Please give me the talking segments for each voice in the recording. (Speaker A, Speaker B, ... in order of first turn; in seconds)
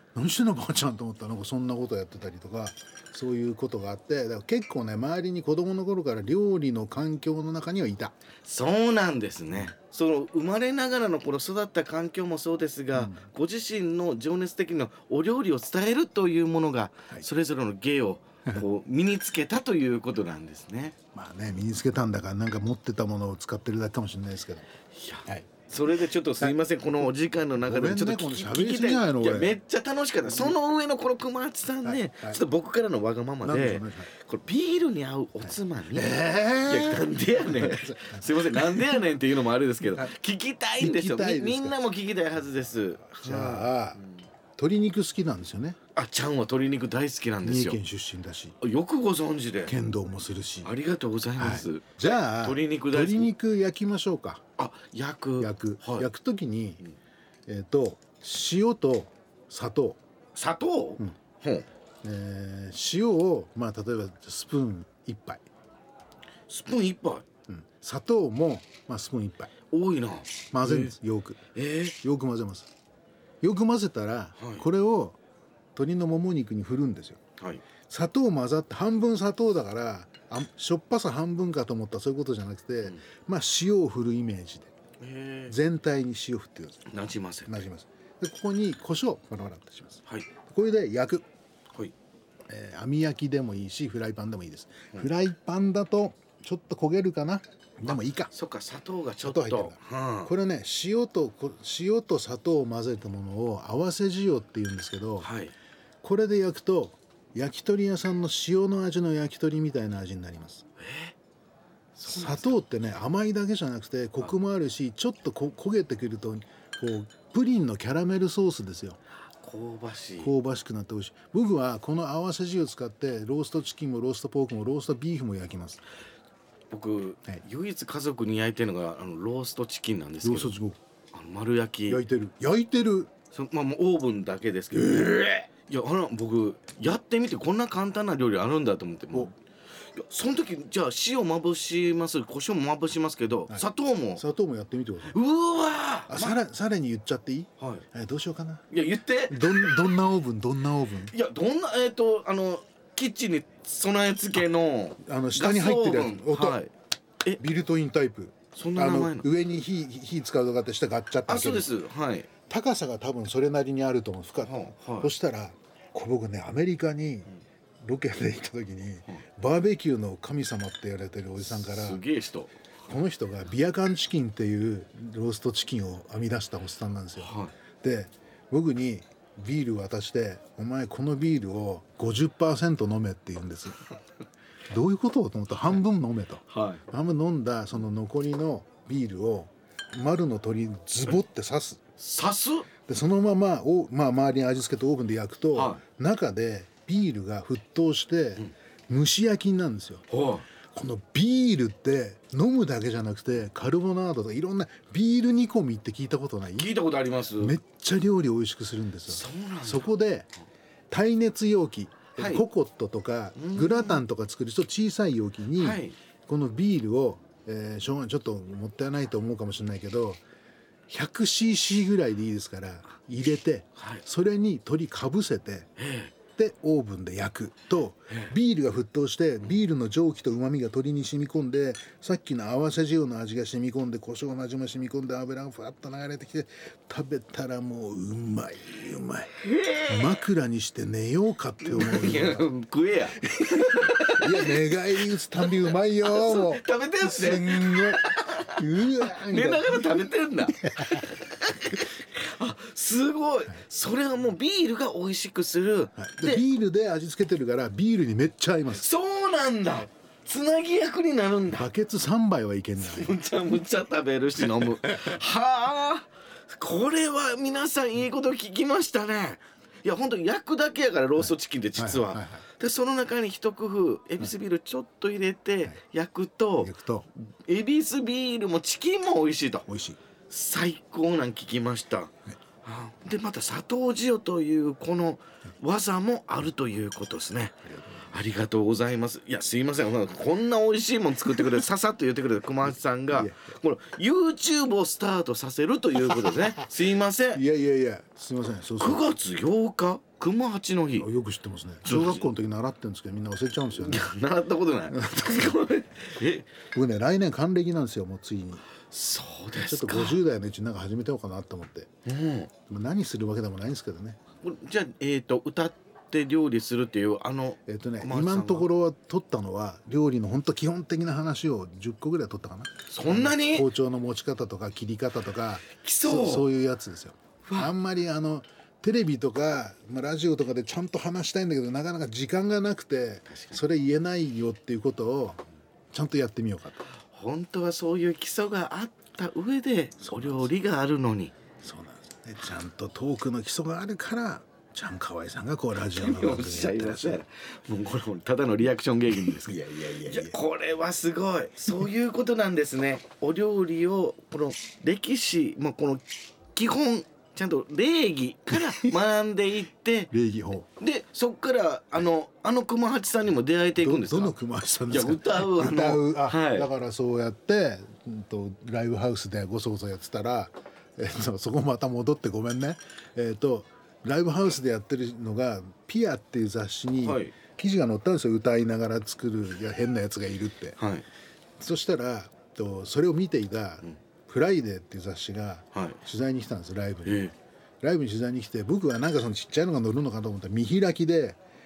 Speaker A: 0.1-8.1, 12.9-13.2, 21.1-24.7, 27.6-29.6, 30.2-30.6, 31.8-32.4, 33.4-34.1, 35.4-39.0, 39.9-40.1, 40.8-41.8, 43.2-44.0, 44.5-45.8, 47.4-48.5, 49.6-50.7, 51.4-54.4, 55.4-56.8, 57.5-60.0, 62.0-65.4, 67.5-69.5, 70.5-71.4, 72.0-72.7, 73.4-75.2, 75.7-77.2, 77.9-84.7, 85.5-86.8, 87.5-91.2, 92.5-98.3, 99.2-105.3, 106.0-110.6, 112.0-119.0, 120.2-125.8, 130.2-130.8, 131.9-133.1, 134.7-135.4, 143.5-145.1, 146.1-148.6, 149.3-151.1, 155.0-156.6, 157.4-161.7, 162.5-167.3, 167.8-172.0, 172.9-183.8, 184.7-191.8, 192.8-200.0, 200.7-206.7, 207.3-210.3, 210.9-220.2, 220.9-225.7, 226.3-239.3, 239.9-242.5, 244.2-248.0, 248.5-251.1, 256.0-258.8, 261.5-263.2, 264.6-265.0, 271.2-272.4, 276.6-277.1, 279.7-280.0, 287.6-288.2, 293.1-293.4, 297.3-299.1, 301.0-304.1, 304.9-305.6, 306.7-308.6, 309.5-311.9, 312.7-314.2, 317.7-335.4, 335.9-336.8, 340.0-340.5, 341.6-347.2, 349.8-350.4, 360.1-360.7, 363.8-380.8, 381.6-387.3, 387.8-391.4
Speaker B: 8.4-20.9, 24.9-44.2, 45.9-47.8, 48.6-49.8, 50.6-53.3, 54.6-56.1, 60.3-61.7, 66.5-67.2, 69.7-71.0, 71.5-72.0, 74.4-74.7, 77.4-77.6, 85.0-85.5, 86.9-87.6, 97.8-100.3, 105.2-105.5, 110.8-111.1, 112.0-112.6, 119.4-120.3, 126.7-130.5, 131.1-132.0, 133.3-139.3, 139.9-144.2, 145.1-146.4, 147.6-147.8, 148.7-149.8, 151.1-156.7, 158.5-159.3, 161.3-162.3, 164.4-165.1, 171.4-172.5, 177.2-177.5, 186.5-186.8, 192.0-192.7, 195.5-195.8, 200.1-200.4, 206.5-207.6, 209.1-209.9, 212.2-212.4, 213.3-214.0, 215.6-215.9, 223.8-224.0, 225.8-226.1, 228.1-228.3, 239.4-240.2, 241.6-244.7, 245.4-256.4, 258.7-261.7, 262.8-276.7, 277.2-279.7, 280.3-282.1, 282.6-297.4, 298.8-301.1, 301.8-302.3, 303.8-306.6, 308.8-310.2, 312.0-312.5, 314.4-318.7, 322.9-323.7, 325.8-326.5, 327.4-327.7, 333.3-333.6, 336.9-341.3, 345.9-360.1, 360.8-366.7, 377.0-377.3, 380.8-381.1, 385.7-386.0, 387.0-387.3